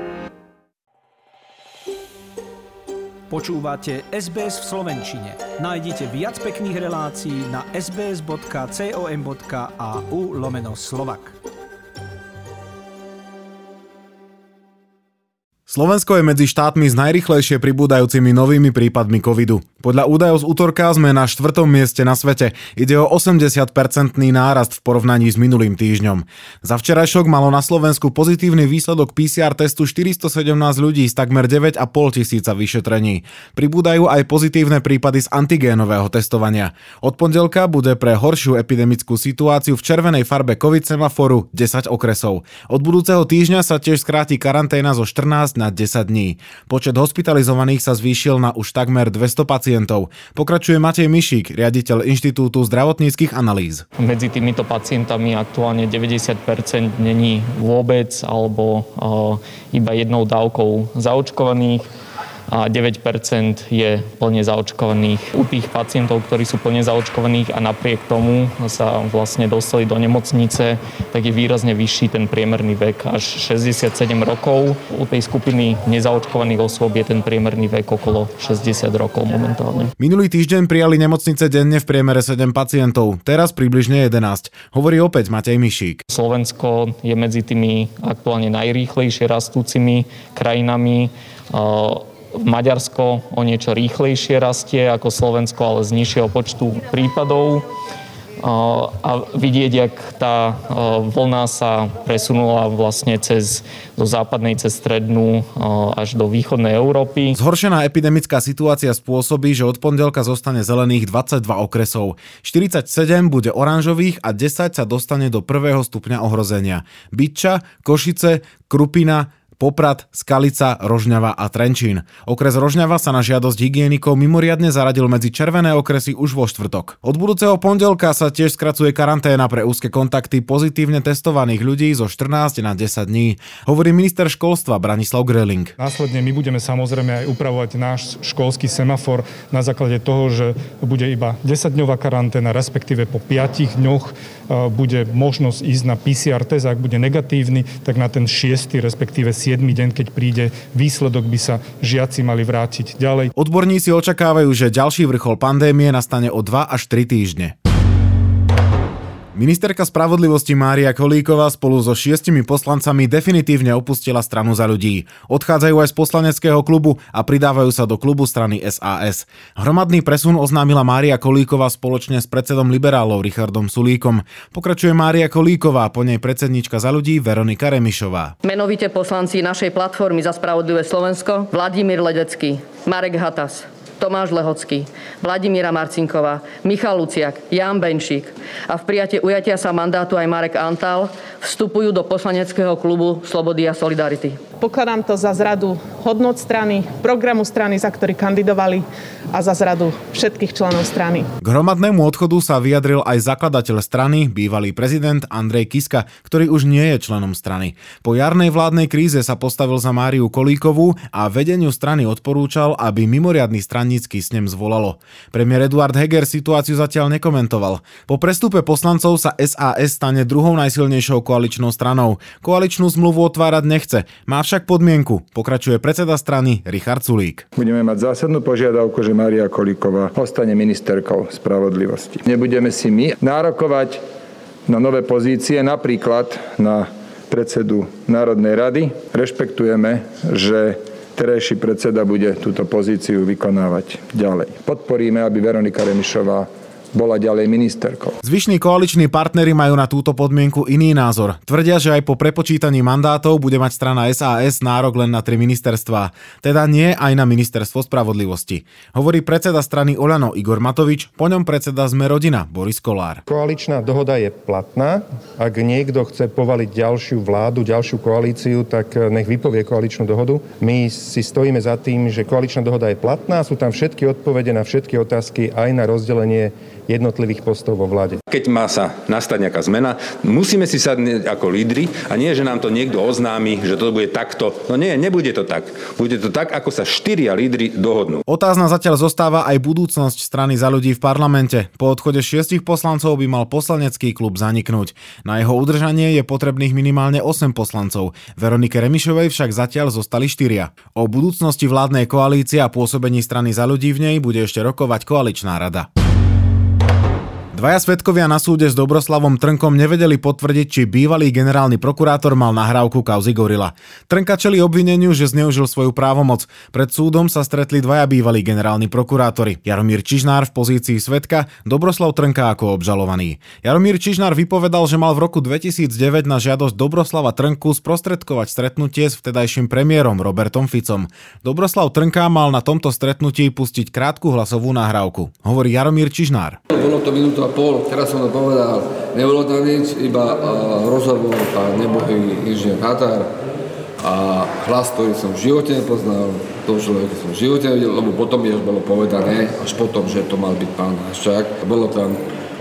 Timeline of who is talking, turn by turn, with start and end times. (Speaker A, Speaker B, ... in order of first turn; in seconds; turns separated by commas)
Speaker A: 3.3-11.3, Speaker B: 15.7-53.8, Speaker C: 54.0-61.9, Speaker C: 62.5-79.9, Speaker B: 80.0-86.0, Speaker C: 86.1-97.6, Speaker C: 98.4-107.4, Speaker B: 107.3-135.7, Speaker D: 135.8-153.3, Speaker B: 153.4-157.6, Speaker B: 159.3-178.3, Speaker E: 178.4-194.4, Speaker F: 194.6-201.3, Speaker B: 201.4-227.4, Speaker G: 227.6-234.0, Speaker G: 234.7-248.2, Speaker B: 248.2-263.2, Speaker H: 263.3-278.2, Speaker I: 278.3-288.2, Speaker B: 288.3-305.9, Speaker B: 307.5-336.6, Speaker J: 336.7-343.3, Speaker J: 344.0-352.2